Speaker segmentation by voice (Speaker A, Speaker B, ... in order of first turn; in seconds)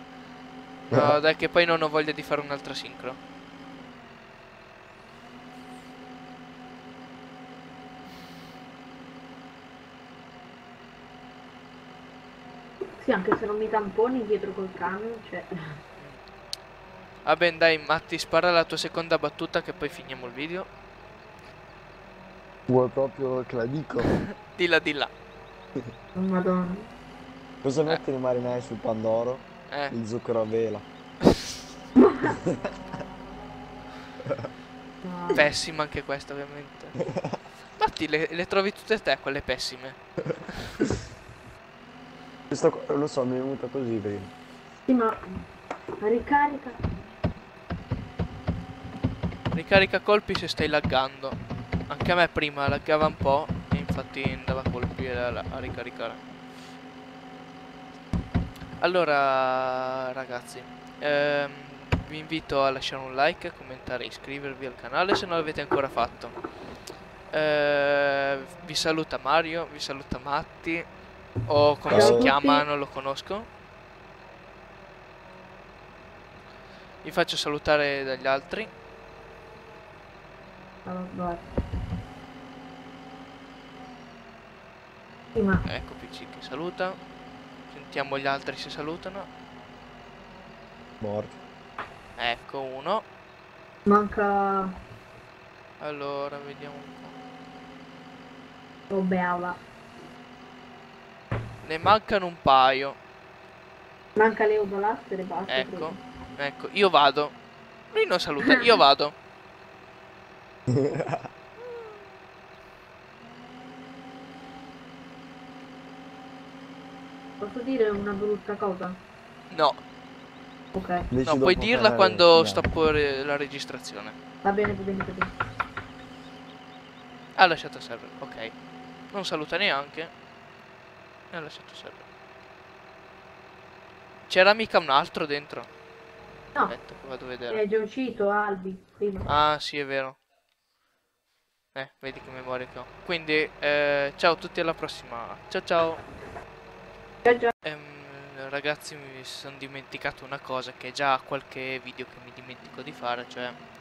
Speaker A: 0.9-3.2, 17.2-20.7, 24.0-25.1, 35.3-37.0, 37.8-40.9, 49.5-51.4, 51.9-56.2, 58.8-66.3, 67.3-70.8, 71.5-73.5, 77.0-78.7, 85.6-87.0, 87.7-89.3, 92.2-93.0, 95.8-97.2, 101.6-103.0, 105.5-107.3, 107.9-109.1, 119.5-119.8, 121.2-124.2, 127.3-128.5, 129.1-130.1, 131.3-132.0, 134.3-135.7, 136.7-137.6, 139.2-140.2, 141.7-146.0, 147.6-153.6
Speaker B: 0.9-1.2, 22.7-24.2, 27.6-30.8, 32.3-32.6, 42.5-44.3, 71.9-72.3, 91.0-91.4, 110.7-111.2, 121.1-122.7
Speaker C: 13.0-15.8, 26.1-26.9, 32.0-32.4, 35.0-35.5, 44.9-45.2, 46.0-46.8, 71.9-72.7, 80.8-81.5, 85.3-85.6, 93.8-94.7, 98.9-99.6, 104.2-106.0, 117.4-119.0, 120.7-121.1, 124.4-125.3, 137.5-139.3, 147.2-147.5